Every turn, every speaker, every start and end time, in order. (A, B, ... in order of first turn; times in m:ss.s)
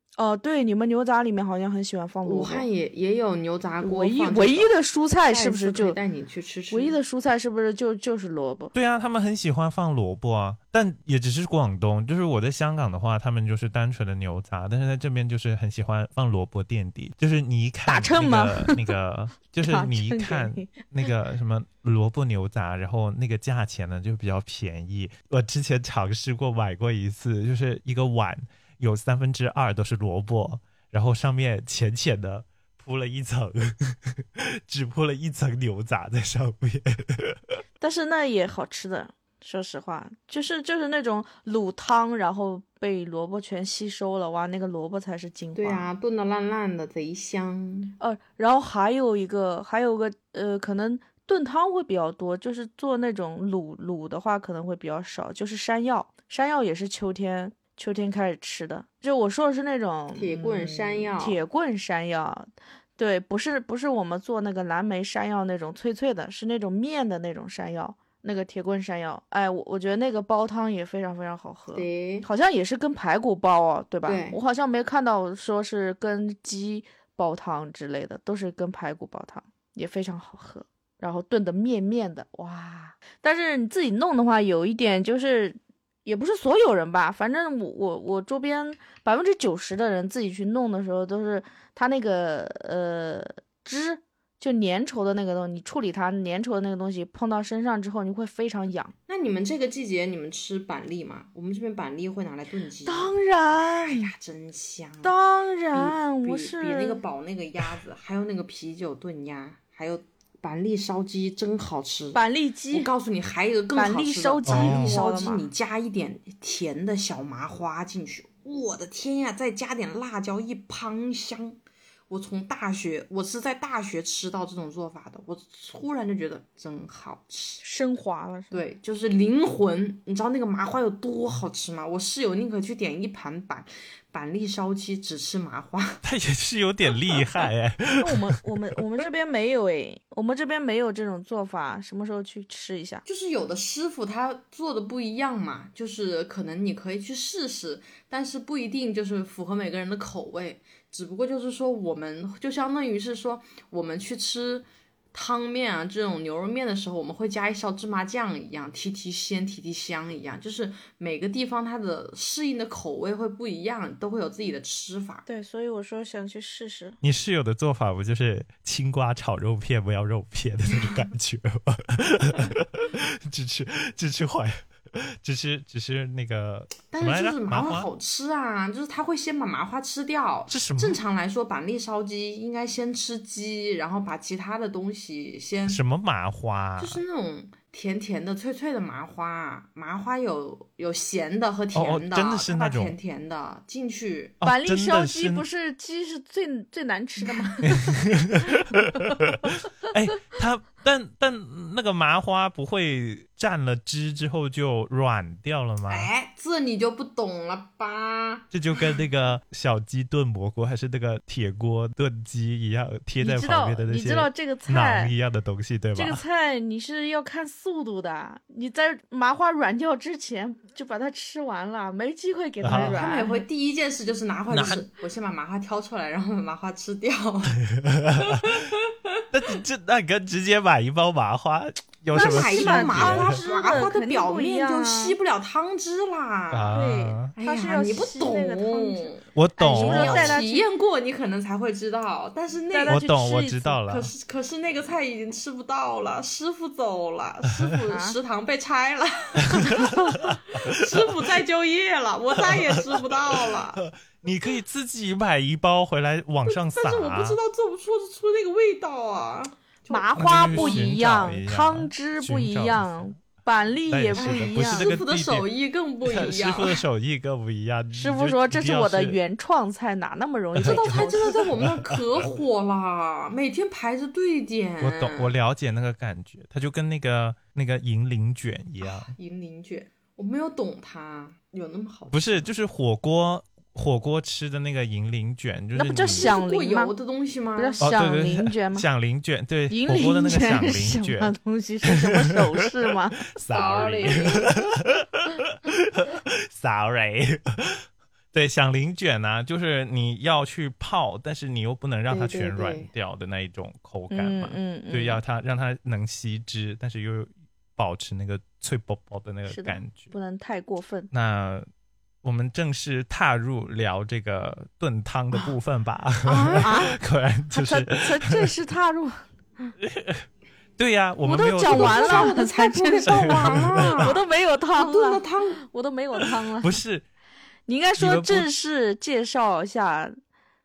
0:00.2-0:02.6 A
0:02.2-0:06.9 B
0:03.8-0:06.0 A
0:06.7-0:08.7 A
0:08.7-0:37.6 C
0:17.8-0:18.9 A
0:19.6-0:20.7 A
0:37.8-0:45.9 A
0:45.5-0:48.0 B
0:48.0-1:38.9 A
1:00.2-1:01.4 B
1:11.7-1:12.3 B
1:14.0-1:14.4 B
1:39.1-1:45.1 B
1:42.8-1:44.1 A
1:45.0-1:47.0 A
1:45.7-1:52.2 B
1:52.1-1:52.9 A
1:52.7-2:01.6 B
1:53.7-1:55.5 A
1:54.4-1:55.0 C
2:02.1-2:07.6 B
2:07.6-2:08.6 A
2:08.5-2:16.0 B
2:16.0-2:18.4 C
2:18.0-2:23.0 A
2:23.0-2:45.2 B
2:45.3-2:47.0 A
2:47.0-2:57.9 C
2:56.9-3:05.8 B
3:00.5-3:01.0 C
3:05.7-3:07.0 C
3:06.8-3:14.4 B
3:11.7-3:13.0 C
3:14.4-3:15.4 C
3:14.4-3:18.0 A
3:17.6-3:26.1 C
3:18.7-3:19.2 A
3:25.9-3:29.0 B
3:28.5-3:36.2 C
3:33.2-3:35.1 A
3:35.9-3:43.4 A
3:42.6-3:43.0 C
3:42.6-3:47.6 B
3:44.5-3:44.8 C
3:47.7-3:48.6 C
3:48.2-3:48.9 B
3:49.3-3:53.3 C
3:52.1-3:55.2 A
3:52.1-3:56.8 B
3:56.5-3:57.3 C
3:56.7-4:00.6 A
3:57.4-4:03.1 B
3:59.3-4:00.4 C
4:02.7-4:03.8 A
4:02.9-4:04.1 C
4:03.8-4:13.8 B
4:07.9-4:08.2 A
4:09.5-4:11.2 C
4:12.4-4:17.4 C
4:16.4-4:20.9 B
4:19.9-4:24.9 A
4:20.2-4:23.2 C
4:23.8-4:25.5 C
4:24.2-4:26.8 B
4:26.0-4:29.2 C
4:27.9-4:31.4 A
4:30.5-4:32.0 C
4:30.6-4:35.3 B
4:34.8-4:39.1 C
4:38.8-4:42.5 B
4:42.1-4:46.3 C
4:45.7-4:46.9 A
4:46.1-4:47.8 B
4:47.6-4:48.8 A
4:47.8-4:51.3 C
4:49.7-4:53.2 A
4:51.8-4:52.4 C
4:53.3-5:10.1 C
4:53.5-4:54.5 B
5:02.1-5:02.9 B
5:04.1-5:05.2 A
5:09.4-5:11.1 A
5:11.1-5:11.6 C
5:12.2-5:18.5 C
5:16.2-5:16.9 B
5:16.6-5:17.0 A
5:17.5-5:19.2 A
5:19.8-5:22.4 C
5:21.2-5:26.7 A
5:21.7-5:24.2 B
5:23.0-5:24.2 C
5:24.7-5:25.6 B
5:26.6-5:27.0 C
5:27.7-5:30.2 A
5:28.0-5:28.5 C